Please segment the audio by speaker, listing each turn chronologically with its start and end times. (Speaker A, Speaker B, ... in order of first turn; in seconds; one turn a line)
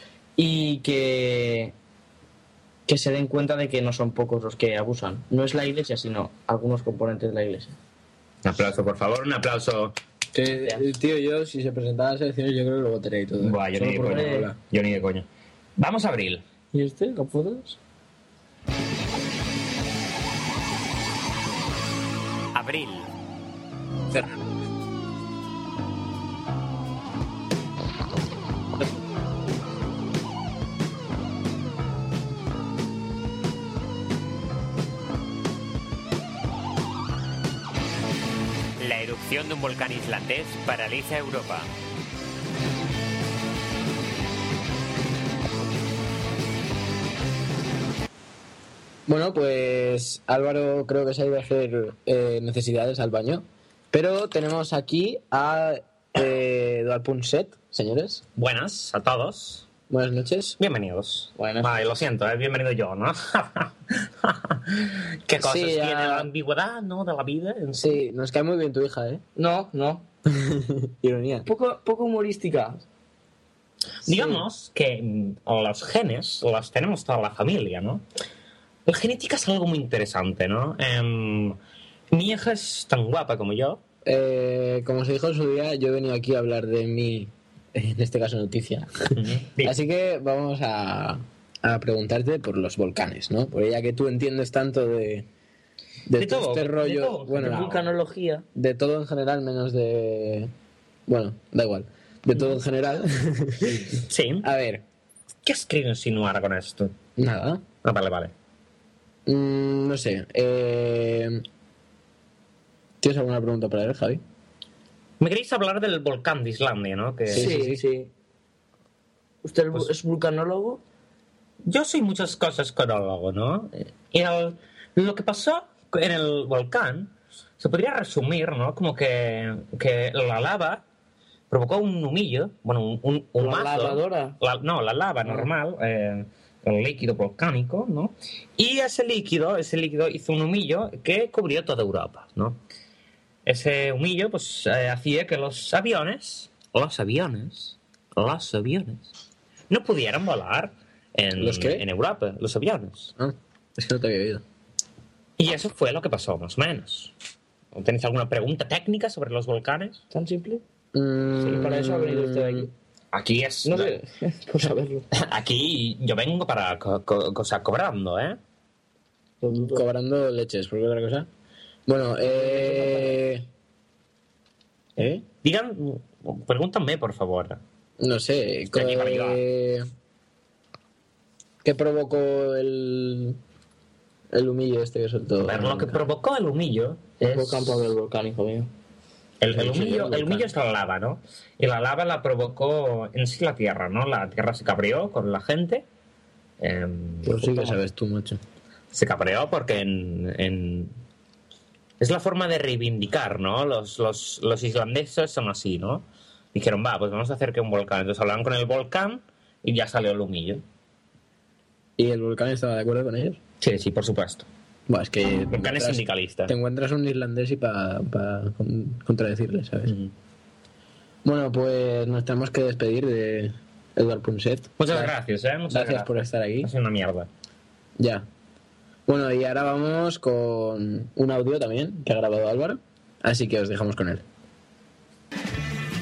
Speaker A: 0.4-1.7
Speaker A: 2.9-7.8
Speaker B: 8.4-10.0
Speaker C: 10.3-14.6
Speaker A: 10.6-10.9
Speaker B: 13.4-15.3
Speaker A: 13.9-14.5
Speaker B: 15.8-16.4
Speaker A: 16.7-17.8
Speaker B: 22.6-23.1
Speaker D: 22.6-23.1
Speaker D: 38.8-41.7
Speaker C: 49.1-58.2
Speaker B: 58.4-59.7
Speaker C: 59.9-60.6
Speaker B: 60.6-68.0
Speaker A: 61.4-61.8
Speaker C: 65.4-66.2
Speaker C: 67.8-69.2
Speaker A: 69.4-70.1
Speaker C: 70.3-71.5
Speaker A: 71.5-72.8
Speaker B: 74.0-78.0
Speaker C: 74.1-74.4
Speaker B: 78.9-81.6
Speaker B: 82.1-83.8
Speaker C: 84.0-95.3
Speaker B: 89.1-89.8
Speaker C: 96.1-97.8
Speaker B: 96.2-97.9
Speaker A: 97.4-98.5
Speaker C: 98.5-100.5
Speaker C: 101.1-104.8
Speaker B: 104.0-104.5
Speaker B: 105.5-107.0
Speaker C: 107.2-107.6
Speaker B: 107.8-108.3
Speaker C: 109.3-111.4
Speaker C: 113.0-114.2
Speaker B: 115.2-117.5
Speaker C: 117.3-117.8
Speaker A: 117.3-118.1
Speaker A: 119.4-120.8
Speaker B: 121.7-130.8
Speaker B: 131.5-142.6
Speaker A: 133.4-134.4
Speaker B: 143.5-149.1
Speaker B: 149.7-153.1
Speaker C: 151.4-151.9
Speaker C: 153.2-154.4
Speaker B: 155.4-157.1
Speaker B: 157.7-160.0
Speaker A: 160.1-160.6
Speaker C: 160.9-162.7
Speaker A: 161.5-162.7
Speaker B: 163.1-164.0
Speaker A: 163.7-165.1
Speaker B: 165.1-168.4
Speaker A: 169.4-169.8
Speaker C: 169.5-171.3
Speaker C: 171.9-173.5
Speaker A: 172.2-173.2
Speaker C: 175.0-175.2
Speaker B: 175.4-177.6
Speaker C: 178.0-179.9
Speaker B: 178.7-179.4
Speaker C: 181.6-183.4
Speaker C: 184.3-186.1
Speaker B: 185.4-187.8
Speaker A: 187.2-188.7
Speaker B: 189.4-195.8
Speaker C: 189.5-190.5
Speaker B: 196.6-197.5
Speaker C: 197.2-198.4
Speaker A: 197.5-197.8
Speaker B: 198.9-200.9
Speaker B: 202.0-210.6
Speaker C: 212.0-213.4
Speaker B: 213.6-214.5
Speaker C: 214.9-219.9
Speaker B: 215.5-216.5
Speaker B: 219.9-220.1
Speaker C: 221.2-225.1
Speaker B: 224.8-227.3
Speaker C: 225.7-226.7
Speaker C: 228.0-228.3
Speaker C: 229.1-234.2